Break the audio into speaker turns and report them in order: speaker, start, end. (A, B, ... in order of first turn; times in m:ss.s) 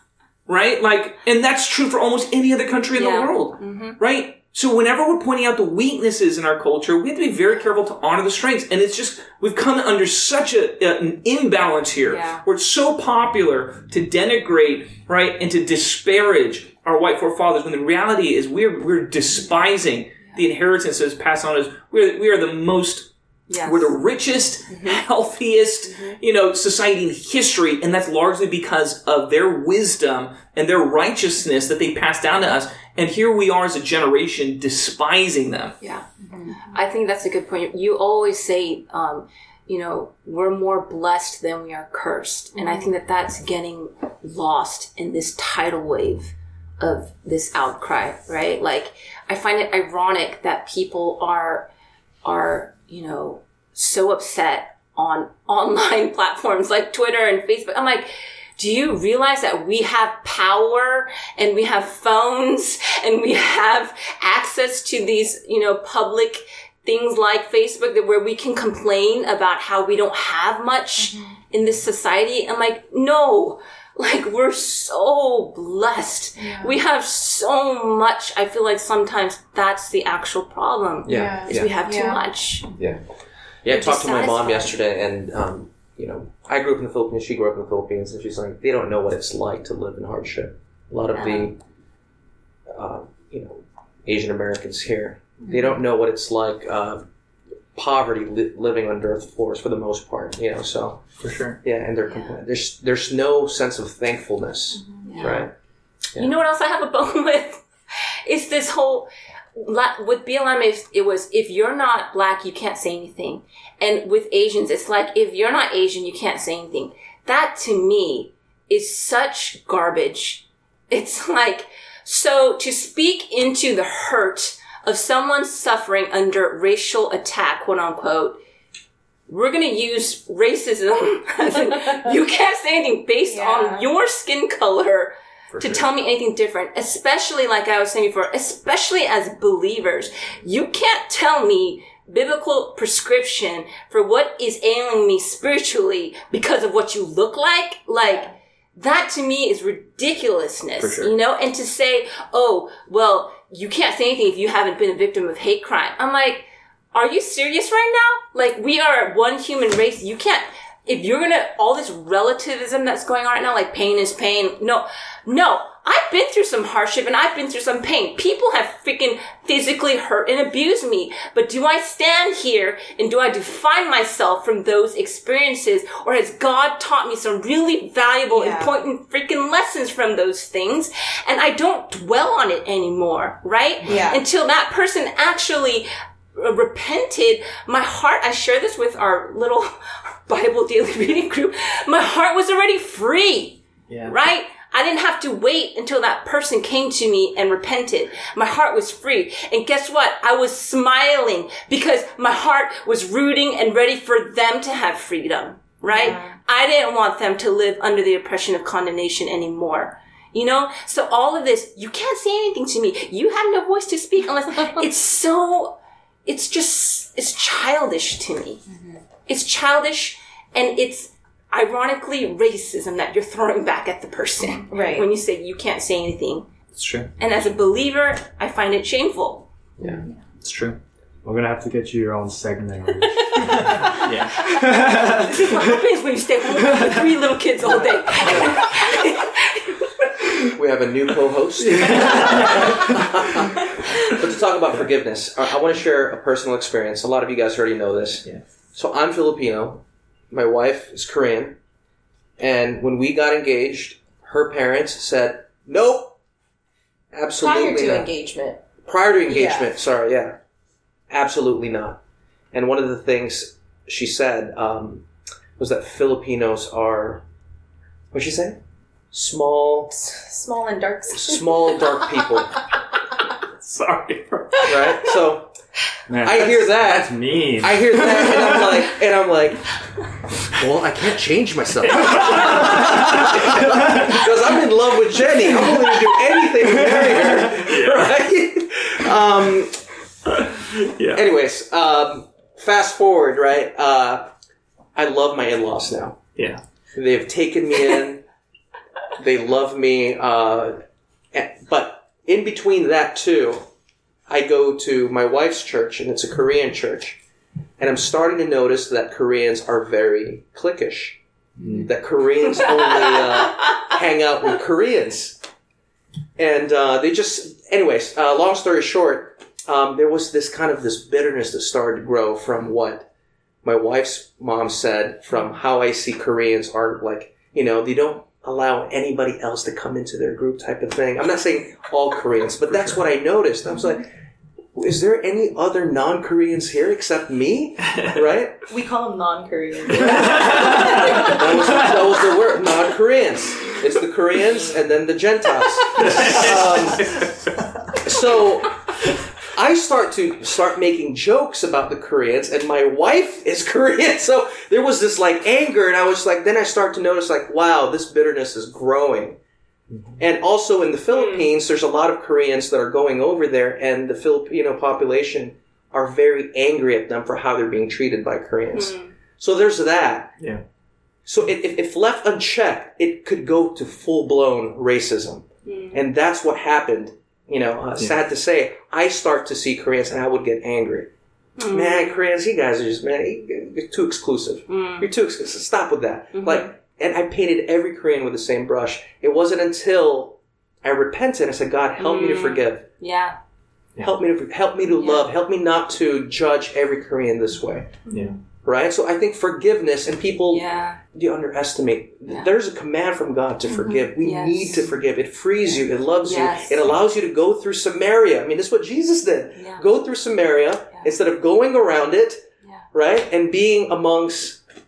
0:00.5-0:35.8 A
0:03.0-0:04.0 B
0:12.1-0:12.4 B
0:23.5-0:23.9 B
0:35.8-0:51.7 B
0:36.2-0:36.7 C
0:42.6-0:42.9 C
0:52.2-1:22.7 B
1:11.0-1:11.3 C
1:16.4-1:16.8 C
1:21.1-1:21.7 D
1:21.1-1:22.2 C
1:23.6-1:31.6 D
1:23.7-1:24.7 B
1:32.7-1:37.0 D
1:37.7-1:41.0 D
1:41.2-1:41.6 A
1:41.6-1:45.5 D
1:42.0-1:42.3 B
1:44.8-1:45.3 C
1:45.0-1:45.4 B
1:46.2-1:47.6 B
1:48.2-2:08.4 B
2:09.3-3:09.7 B
2:13.3-2:13.8 C
2:15.5-2:15.8 A
2:28.0-2:28.3 C
2:30.8-2:31.1 A
2:58.3-2:58.7 C
3:03.8-3:04.2 C
3:10.3-3:38.6 B
3:25.9-3:26.4 C
3:39.3-3:46.5 B
3:44.7-3:45.1 C
3:46.7-3:47.1 A
3:47.2-3:49.5 B
3:50.4-3:50.8 A
3:51.2-3:55.5 E
3:53.9-3:55.1 A
3:54.4-3:59.8 B
4:00.5-4:11.6 D
4:01.8-4:02.9 A
4:12.4-4:16.1 D
4:17.1-4:18.1 D
4:17.4-4:18.7 C
4:18.8-4:20.4 D
4:19.2-4:19.7 C
4:21.1-4:22.0 D
4:22.5-4:25.1 D
4:25.6-4:27.2 D
4:28.1-4:28.6 D
4:29.1-4:30.0 D
4:30.0-4:31.9 C
4:31.1-4:32.5 D
4:33.4-4:35.0 A
4:34.6-4:35.5 D
4:36.1-4:38.3 E
4:36.2-4:39.7 D
4:40.5-4:49.8 D
4:41.9-4:44.2 A
4:46.8-4:48.0 A
4:50.3-4:51.2 A
4:51.1-4:54.3 D
4:54.9-4:56.2 D
4:56.4-4:56.6 A
4:56.9-4:58.2 D
4:59.2-5:00.8 D
5:01.3-5:03.6 D
5:04.3-5:07.2 D
5:07.8-5:15.4 D
5:11.6-5:11.9 E
5:16.4-5:23.1 D
5:23.6-5:34.1 D
5:34.7-5:38.6 D
5:38.7-5:41.9 C
5:40.1-5:47.1 D
5:40.4-5:41.0 A
5:46.0-5:46.6 A
5:48.0-5:48.8 D
5:49.4-5:59.4 D
6:00.2-6:10.3 D
6:01.1-6:01.5 B
6:08.7-6:09.1 B
6:11.2-6:21.1 D
6:15.6-6:16.0 B
6:21.6-6:22.2 B
6:21.7-6:32.8 D
6:24.7-6:25.1 B
6:26.3-6:26.7 B
6:32.0-6:33.4 B
6:34.0-6:38.0 D
6:35.0-6:35.3 B
6:38.6-6:54.6 D
6:40.5-6:41.0 B
6:44.2-6:44.8 B
6:46.2-6:46.9 B
6:49.6-6:49.8 B